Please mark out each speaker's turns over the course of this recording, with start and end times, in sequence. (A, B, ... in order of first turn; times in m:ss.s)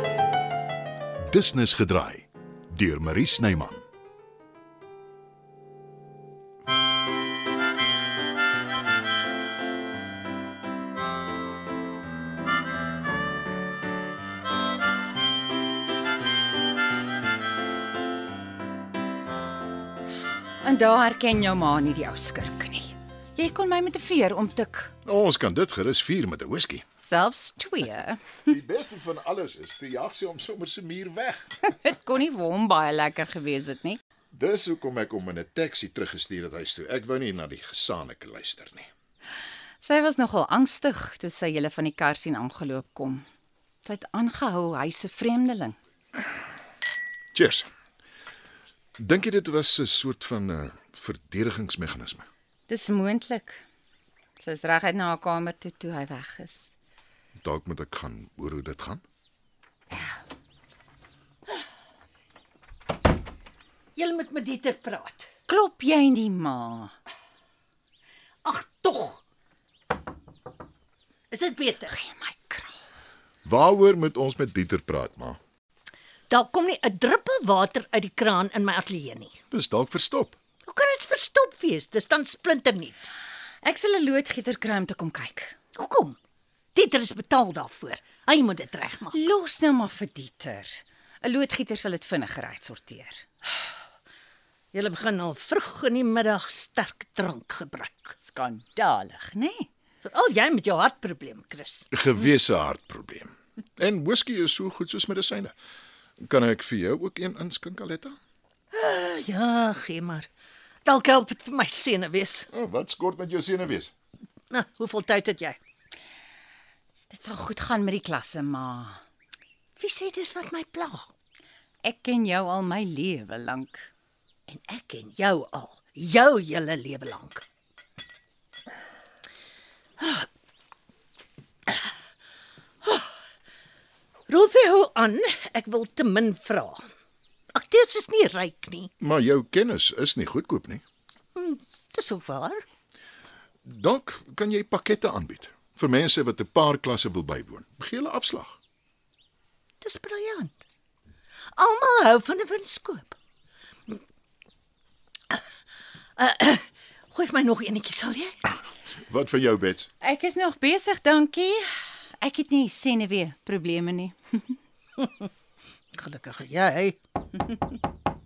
0:01.3-0:03.8 A
0:20.6-0:24.9 B
0:25.0-0:26.8 A
0:27.0-0:28.4 B
0:28.5-0:31.6 A
0:31.8-0:34.0 B
0:34.3-0:38.9 A
0:39.8-0:43.2 B
0:43.8-0:45.8 B
0:47.3-0:47.7 A
0:49.0-0:52.3 A
0:52.7-0:53.6 B
0:54.4-0:56.7 B
0:57.4-0:59.0 A
1:04.0-1:05.3 C
1:05.5-1:06.9 B
1:08.4-1:09.2 C
1:11.3-1:12.0 C
1:11.9-1:12.8 B
1:13.4-1:15.4 A
1:16.3-1:19.4 C
1:19.5-1:20.4 A
1:20.6-1:23.1 C
1:23.6-1:25.5 B
1:25.7-1:26.2 C
1:26.7-1:29.2 C
1:29.1-1:33.2 B
1:34.7-1:38.2 C
1:38.2-1:39.7 B
1:40.0-1:41.9 C
1:41.9-1:45.5 A
1:46.2-1:48.2 A
1:48.7-1:50.3 C
1:50.8-1:52.5 C
1:52.5-1:53.9 A
1:54.5-1:55.6 C
1:57.1-1:59.0 B
1:59.8-2:01.1 C
2:01.8-2:03.9 B
2:04.5-2:07.4 C
2:10.0-2:10.3 C
2:12.8-2:13.1 C
2:14.3-2:16.8 C
2:17.5-2:18.9 C
2:19.0-2:20.8 A
2:21.3-2:22.6 C
2:23.6-2:28.6 A
2:29.8-2:30.6 C
2:31.5-2:33.1 C
2:36.2-2:38.4 C
2:39.1-2:39.9 A
2:40.0-2:41.6 B
2:42.2-2:44.6 B
2:45.9-2:47.0 C